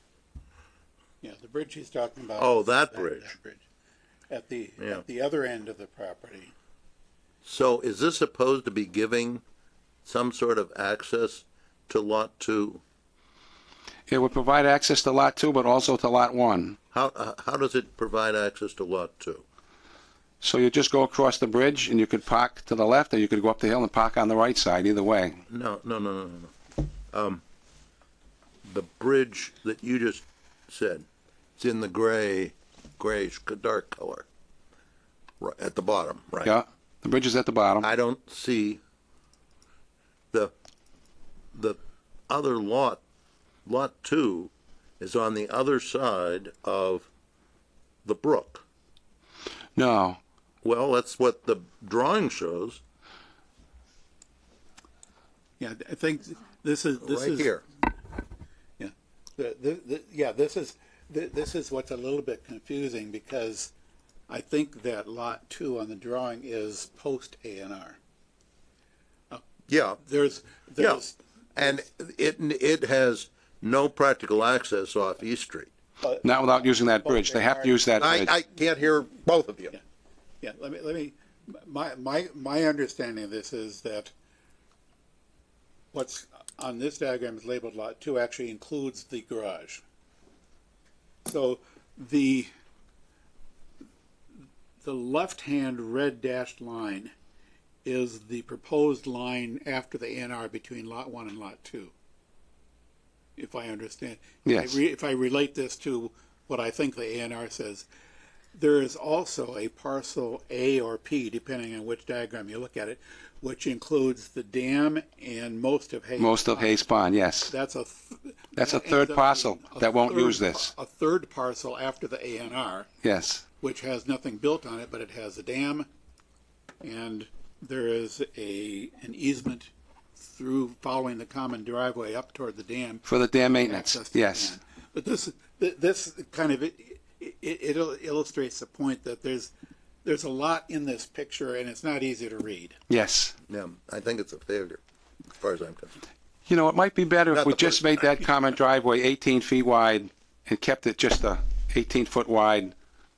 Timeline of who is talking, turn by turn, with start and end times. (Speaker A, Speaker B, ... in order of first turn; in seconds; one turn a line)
Speaker A: 1.2-3.6
Speaker B: 2.4-3.3
Speaker A: 4.3-6.5
Speaker B: 4.8-5.0
Speaker B: 7.4-9.4
Speaker B: 10.0-12.8
Speaker C: 14.1-16.8
Speaker B: 16.9-19.4
Speaker C: 20.4-25.4
Speaker B: 25.5-26.5
Speaker B: 27.1-27.4
Speaker B: 28.6-31.1
Speaker B: 31.6-34.3
Speaker B: 35.4-36.5
Speaker C: 36.4-37.9
Speaker B: 37.8-38.8
Speaker B: 41.5-43.0
Speaker B: 43.6-47.1
Speaker B: 48.0-48.6
Speaker C: 49.8-50.2
Speaker B: 50.6-52.8
Speaker A: 55.6-57.5
Speaker B: 57.0-57.6
Speaker A: 58.8-63.7
Speaker A: 64.3-68.0
Speaker B: 69.7-70.0
Speaker A: 70.0-71.7
Speaker B: 71.5-75.7
Speaker A: 76.0-78.0
Speaker C: 76.2-78.3
Speaker B: 78.0-79.8
Speaker A: 80.4-84.1
Speaker A: 85.9-89.8
Speaker A: 91.2-92.5
Speaker A: 94.8-97.1
Speaker A: 97.8-101.9
Speaker A: 103.4-107.9
Speaker C: 104.5-104.8
Speaker A: 108.5-116.8
Speaker C: 116.2-117.5
Speaker A: 117.5-122.9
Speaker C: 118.5-120.7
Speaker C: 123.0-123.4
Speaker A: 123.6-125.9
Speaker A: 126.8-139.5
Speaker C: 133.0-134.6
Speaker A: 140.0-142.8
Speaker C: 142.9-143.3
Speaker B: 143.5-144.8
Speaker B: 145.3-145.9
Speaker C: 146.4-152.7
Speaker B: 147.3-148.1